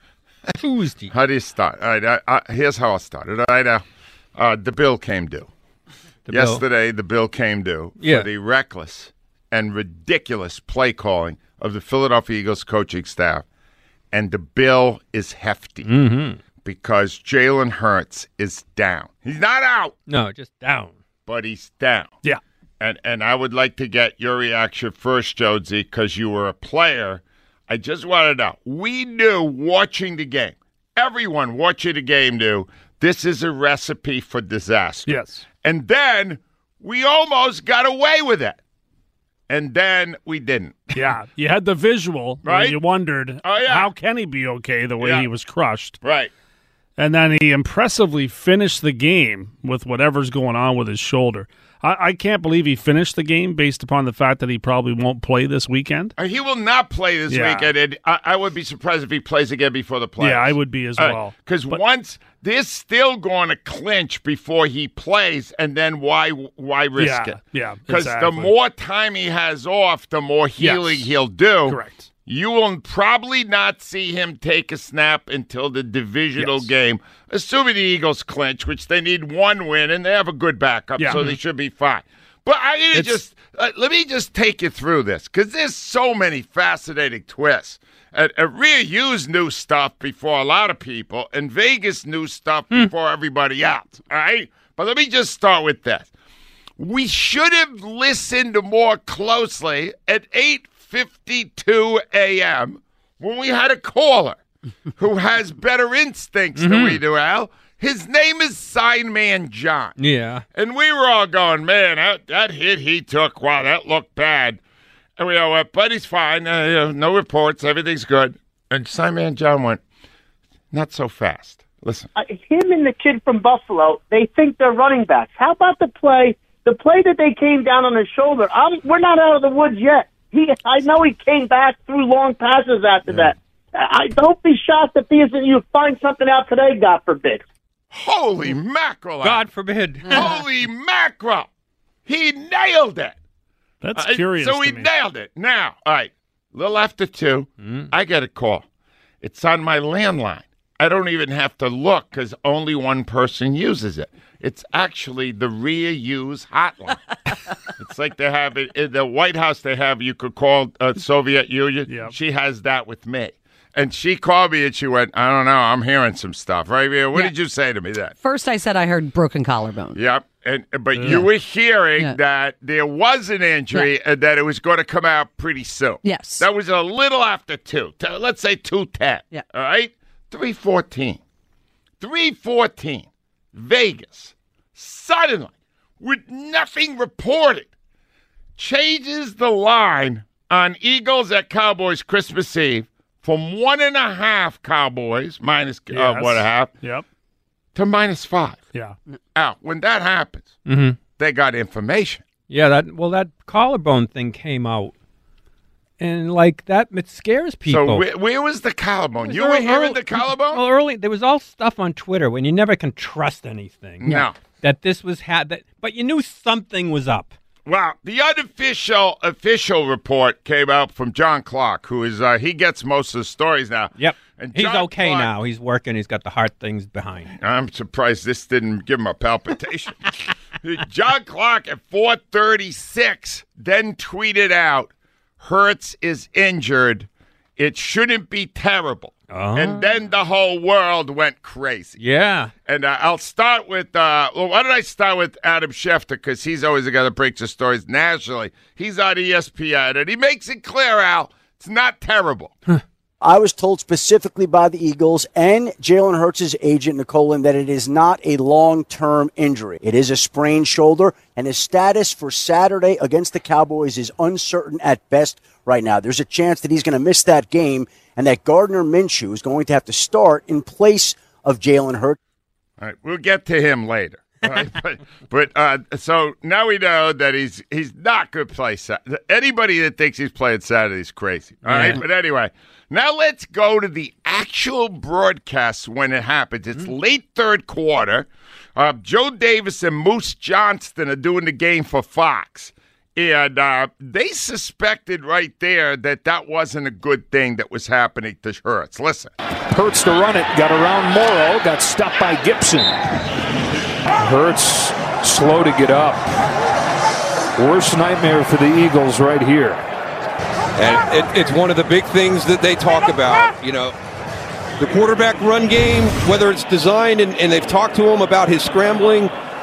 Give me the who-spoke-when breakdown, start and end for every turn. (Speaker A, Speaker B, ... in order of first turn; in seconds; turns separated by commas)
Speaker A: 0.5-1.1, Speaker B: 1.1-3.8, Speaker B: 4.3-5.5, Speaker A: 6.3-6.6, Speaker B: 6.3-13.4, Speaker A: 8.0-8.3, Speaker B: 14.1-15.9, Speaker A: 15.8-16.4, Speaker B: 16.6-19.9, Speaker A: 20.1-20.9, Speaker B: 21.2-22.1, Speaker B: 22.8-38.6, Speaker C: 35.1-35.4, Speaker B: 39.5-41.0, Speaker C: 40.9-46.0, Speaker B: 42.4-42.8, Speaker B: 43.4-43.9, Speaker B: 45.0-45.3, Speaker B: 46.0-46.3, Speaker C: 47.0-56.1, Speaker B: 56.2-96.1, Speaker C: 57.3-57.7, Speaker C: 60.2-61.8, Speaker C: 67.0-68.5, Speaker C: 70.6-71.1, Speaker C: 71.7-72.1, Speaker C: 76.4-76.7, Speaker C: 81.0-81.4, Speaker B: 96.8-104.4, Speaker B: 105.0-110.0, Speaker A: 106.5-107.0, Speaker A: 110.0-110.4, Speaker B: 110.5-114.6, Speaker B: 115.2-119.8, Speaker B: 120.7-122.1, Speaker D: 122.2-137.4, Speaker B: 137.9-139.4, Speaker A: 139.2-140.4, Speaker B: 140.0-141.5, Speaker B: 142.1-143.2, Speaker C: 143.8-144.9, Speaker B: 143.9-148.7, Speaker A: 147.6-147.9, Speaker B: 149.2-157.2, Speaker B: 157.7-168.1, Speaker C: 161.9-162.1, Speaker E: 168.2-170.0, Speaker B: 169.9-181.2, Speaker C: 170.9-171.2, Speaker E: 176.0-176.4, Speaker B: 182.0-187.7, Speaker B: 188.6-196.7, Speaker C: 195.9-197.0, Speaker B: 197.7-198.6, Speaker B: 199.3-200.5, Speaker A: 200.7-201.0, Speaker B: 201.2-202.2, Speaker A: 202.5-204.9, Speaker A: 206.0-208.0, Speaker B: 207.7-210.6, Speaker A: 209.2-217.3, Speaker B: 214.0-214.3, Speaker B: 217.6-225.3, Speaker A: 223.9-227.3, Speaker B: 227.3-242.0, Speaker A: 239.3-239.9, Speaker A: 242.0-242.5, Speaker B: 242.7-252.5, Speaker F: 253.2-272.2, Speaker B: 272.8-299.3, Speaker A: 281.6-282.0, Speaker G: 299.7-303.0, Speaker G: 304.1-306.3, Speaker G: 307.6-309.8, Speaker H: 310.8-313.9, Speaker H: 314.8-319.3